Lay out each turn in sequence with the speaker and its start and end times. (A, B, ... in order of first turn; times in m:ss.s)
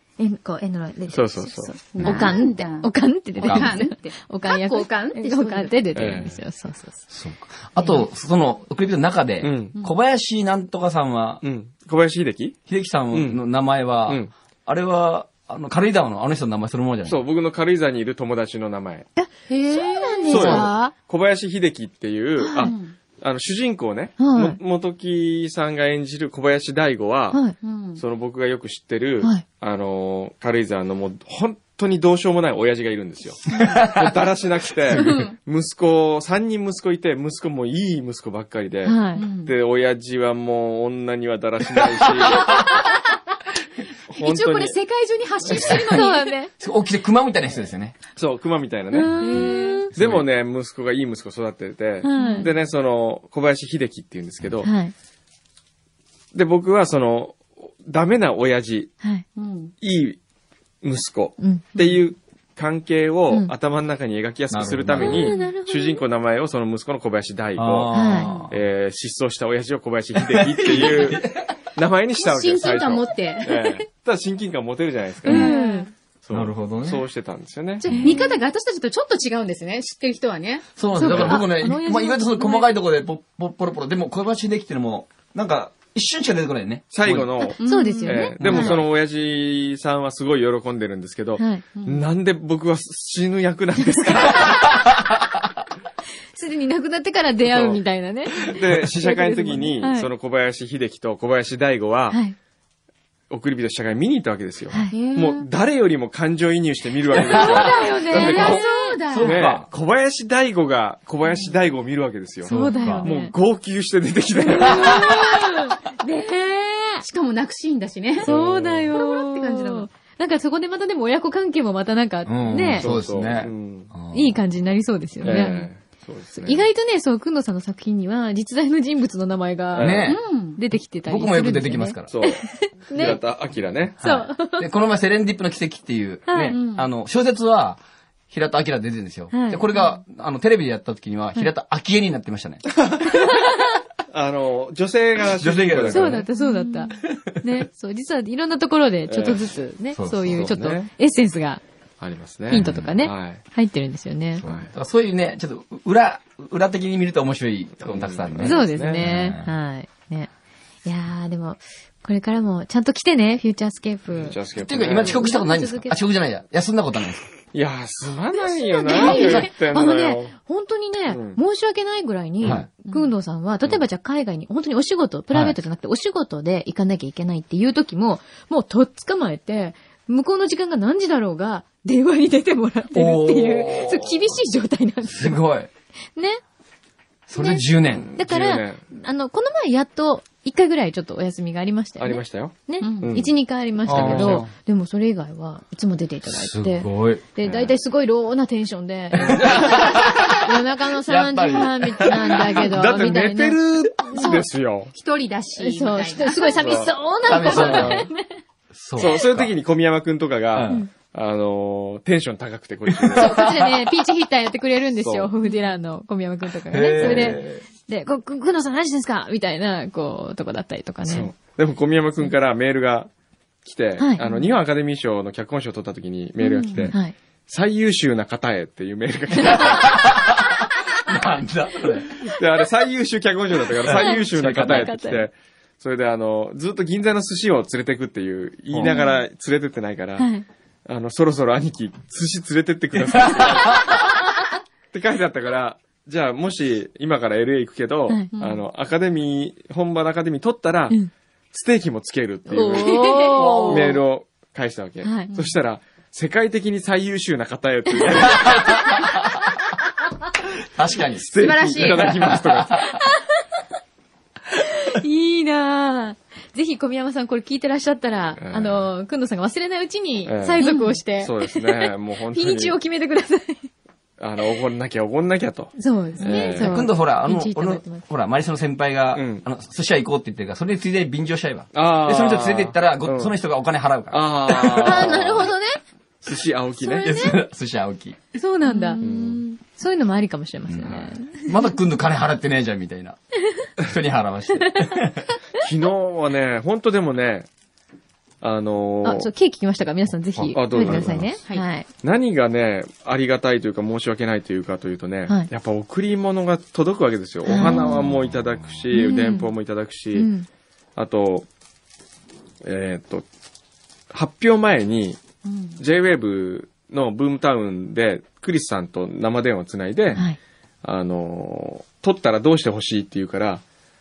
0:00.2-0:07.0 A
0:01.1-0:01.8 B
0:01.9-0:05.8 C
0:02.0-0:02.3 D
0:03.4-0:03.8 D
0:06.0-0:06.4 B
0:07.1-0:11.4 D
0:09.4-0:09.8 B
0:11.4-0:12.6 B
0:12.7-0:17.2 D
0:13.1-0:13.4 B
0:14.0-0:14.3 B
0:17.1-0:19.1 B
0:19.2-0:20.9 A
0:19.5-0:20.7 C
0:20.3-0:27.4 B
0:22.4-0:22.7 A
0:22.6-0:23.0 C
0:24.2-0:24.6 A
0:27.6-0:28.0 C
0:28.0-0:42.9 B
0:33.6-0:34.1 D
0:34.9-0:35.4 C
0:38.8-0:39.3 A
0:39.2-0:39.5 C
0:42.2-0:42.5 D
0:42.4-0:43.0 C
0:44.1-0:44.8 B
0:44.2-0:46.3 C
0:45.5-0:46.0 D
0:45.7-0:46.5 A
0:46.6-0:48.0 D
0:48.2-0:49.4 B
0:48.9-0:49.9 A
0:49.2-0:49.9 C
0:49.9-0:54.7 B
0:50.0-0:50.3 D
0:52.0-0:52.5 A
0:52.2-0:52.5 C
0:54.6-0:54.9 A
0:56.3-0:58.9 B
0:59.4-0:59.7 C
0:59.8-1:00.2 B
1:00.8-1:07.9 B
1:04.5-1:05.4 D
1:05.0-1:06.0 A
1:07.6-1:08.6 D
1:07.9-1:08.3 A
1:08.2-1:08.5 C
1:08.5-1:15.5 B
1:10.2-1:11.5 D
1:12.2-1:13.8 C
1:15.2-1:15.9 C
1:15.3-1:15.9 A
1:16.2-1:17.9 B
1:16.3-1:17.0 D
1:17.8-1:18.4 A
1:17.9-1:20.7 C
1:17.9-1:18.2 D
1:20.8-1:27.4 D
1:21.0-1:22.7 A
1:21.0-1:21.4 B
1:26.9-1:34.9 B
1:27.6-1:28.4 C
1:27.6-1:28.8 A
1:28.4-1:28.9 D
1:31.4-1:31.6 A
1:31.8-1:32.0 C
1:36.3-1:40.1 A
1:37.5-1:37.8 B
1:38.4-1:42.2 B
1:43.3-1:55.3 B
1:44.7-1:45.0 A
1:44.9-1:45.5 C
1:47.2-1:49.0 A
1:47.4-1:49.4 C
1:49.1-1:49.7 D
1:51.3-1:51.5 C
1:52.4-1:53.1 D
1:52.5-1:53.3 A
1:54.4-1:57.0 A
1:54.6-1:55.3 D
1:57.0-1:58.3 C
1:58.2-2:03.0 A
1:58.2-1:59.0 B
1:58.9-1:59.9 C
2:02.3-2:04.4 D
2:02.7-2:03.9 B
2:04.1-2:05.7 A
2:05.2-2:06.7 B
2:06.4-2:13.2 A
2:09.7-2:10.1 B
2:09.8-2:10.2 D
2:10.1-2:10.6 C
2:10.9-2:12.1 D
2:12.1-2:14.0 B
2:14.0-2:22.6 D
2:14.0-2:14.7 A
2:16.3-2:16.6 A
2:16.5-2:16.9 C
2:19.3-2:19.6 A
2:24.1-2:26.2 B
2:25.4-2:26.3 D
2:25.9-2:31.6 A
2:26.4-2:26.9 C
2:27.0-2:27.3 D
2:29.1-2:29.4 B
2:30.0-2:30.5 D
2:30.2-2:30.9 B
2:32.0-2:33.4 B
2:32.5-2:34.4 A
2:32.6-2:33.0 D
2:34.4-2:39.5 D
2:34.4-2:34.7 B
2:37.8-2:39.1 B
2:38.4-2:40.3 A
2:40.8-2:46.0 A
2:44.1-2:45.4 B
2:44.6-2:47.3 D
2:47.5-2:50.3 B
2:48.4-3:05.4 A
2:48.9-2:49.3 C
2:49.0-2:49.5 D
2:51.1-2:51.4 B
2:52.4-2:52.7 D
2:52.8-2:53.1 C
2:55.3-2:55.6 D
3:02.9-3:04.2 D
3:05.1-3:05.7 D
3:06.2-3:06.4 A
3:07.3-3:08.1 D
3:07.4-3:24.5 A
3:07.9-3:08.8 B
3:12.0-3:13.3 B
3:12.8-3:13.2 C
3:13.9-3:14.5 B
3:13.9-3:14.5 D
3:16.3-3:17.2 D
3:17.4-3:17.7 B
3:19.1-3:22.6 D
3:19.2-3:19.8 B
3:22.5-3:24.9 B
3:24.9-3:26.8 C
3:25.6-3:28.2 A
3:26.6-3:28.1 B
3:27.2-3:28.1 D
3:28.7-3:29.5 D
3:29.0-3:33.6 B
3:30.5-3:30.8 D
3:32.9-3:33.7 D
3:33.2-3:41.3 A
3:35.0-3:35.3 B
3:36.7-3:37.6 D
3:37.0-3:37.4 B
3:41.1-3:43.1 B
3:43.6-3:50.2 B
3:44.2-3:44.5 C
3:46.4-3:46.9 C
3:49.4-3:52.2 D
3:52.2-4:00.3 B
3:53.7-3:55.0 D
3:53.9-3:55.3 A
3:58.7-3:59.0 D
3:58.8-3:59.2 A
4:00.2-4:00.5 A
4:00.9-4:04.2 B
4:03.4-4:03.8 D
4:04.9-4:11.0 B
4:08.3-4:08.6 C
4:11.5-4:19.1 B
4:12.5-4:14.0 A
4:12.8-4:13.9 C
4:13.3-4:14.0 D
4:15.0-4:15.3 A
4:18.3-4:19.2 D
4:20.7-4:22.9 D
4:21.2-4:22.8 B
4:21.4-4:22.4 C
4:23.0-4:23.4 A
4:24.7-4:33.7 A
4:28.4-4:28.9 B
4:30.3-4:30.6 B
4:30.6-4:31.0 C
4:31.2-4:32.8 B
4:34.2-4:36.8 B
4:35.8-4:38.0 A
4:36.4-4:45.4 D
4:39.1-4:39.4 B
4:41.7-4:43.3 B
4:44.1-4:45.5 B
4:44.6-4:45.8 A
4:46.2-4:47.3 B
4:46.8-4:47.4 A
4:46.8-4:48.2 D
4:48.4-4:51.5 A
4:48.7-4:49.5 C
4:49.0-4:49.4 B
4:50.7-4:53.2 D
4:53.8-4:55.2 D
4:55.6-4:57.5 B
4:58.4-4:59.3 B
4:59.0-5:01.9 A
5:00.4-5:01.2 D
5:00.5-5:01.3 B
5:02.0-5:10.3 B
5:07.4-5:08.1 A
5:07.6-5:08.4 D
5:08.9-5:09.5 A
5:09.1-5:09.4 C
5:10.1-5:10.5 A
5:11.0-5:11.5 B
5:12.6-5:13.2 B
5:14.1-5:15.2 B
5:15.4-5:15.8 C
5:15.8-5:20.2 B
5:20.8-5:23.6 B